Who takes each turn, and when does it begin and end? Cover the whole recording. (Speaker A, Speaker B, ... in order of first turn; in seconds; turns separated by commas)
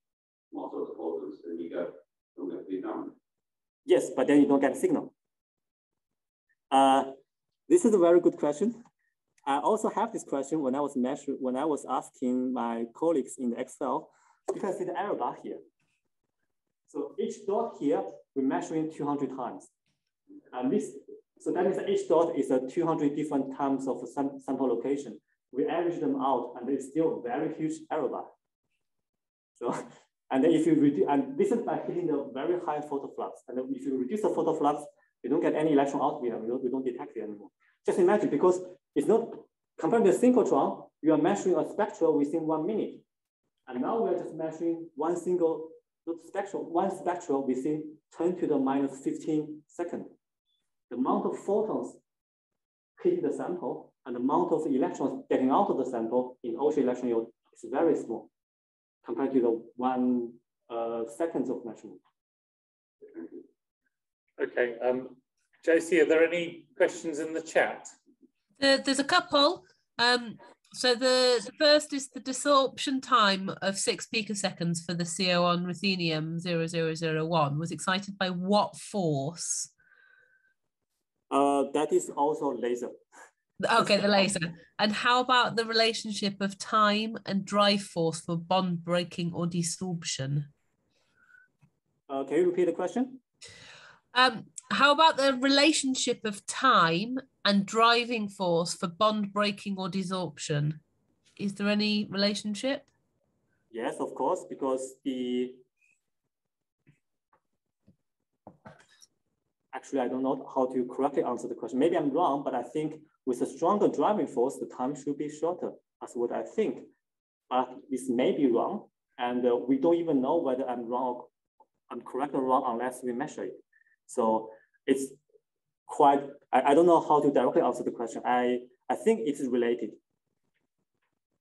Speaker A: 0.5-3.1, Speaker B: 3.9-5.1, Speaker B: 6.7-7.2, Speaker B: 7.7-8.8, Speaker B: 9.4-15.6, Speaker B: 16.9-19.7, Speaker B: 20.5-28.3, Speaker B: 29.6-43.0, Speaker B: 43.7-50.1, Speaker B: 50.9-52.0, Speaker B: 53.0-58.3, Speaker B: 59.0-62.0, Speaker A: 63.0-63.4, Speaker C: 64.4-67.9, Speaker D: 68.6-79.7, Speaker B: 81.3-83.0, Speaker D: 83.6-90.5, Speaker B: 92.1-93.2, Speaker D: 94.1-100.8, Speaker D: 101.4-102.9, Speaker B: 103.7-105.6, Speaker B: 109.7-116.9, Speaker B: 117.5-121.3, Speaker B: 121.9-125.2, Speaker B: 125.9-130.0